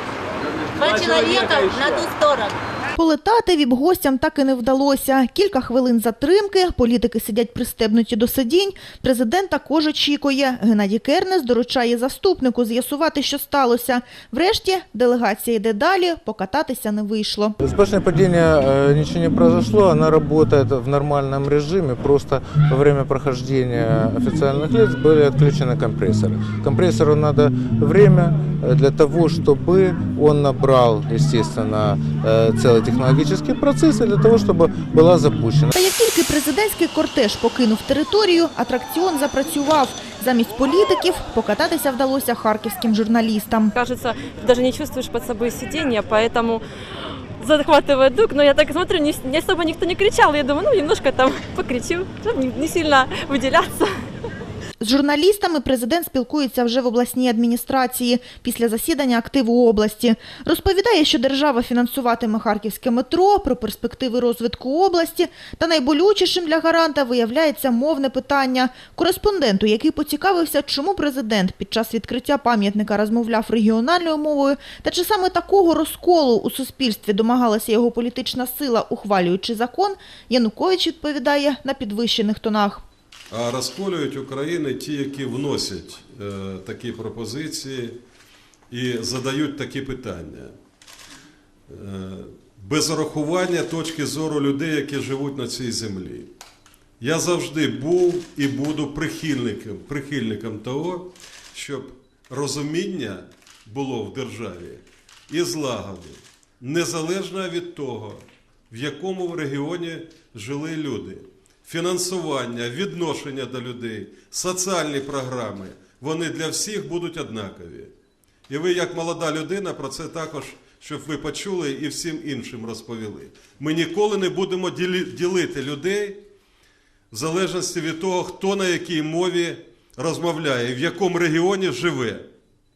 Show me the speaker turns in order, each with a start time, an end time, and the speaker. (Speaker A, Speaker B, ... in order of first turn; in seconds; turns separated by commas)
Speaker A: 0.6-2.6, Speaker B: 3.0-17.5, Speaker C: 17.6-35.7, Speaker B: 35.7-43.7, Speaker D: 43.7-46.6, Speaker D: 47.4-53.9, Speaker B: 54.8-82.8, Speaker E: 83.3-88.0, Speaker E: 88.7-90.5, Speaker E: 91.7-96.3, Speaker E: 97.0-117.9, Speaker E: 118.5-126.2, Speaker E: 127.1-132.3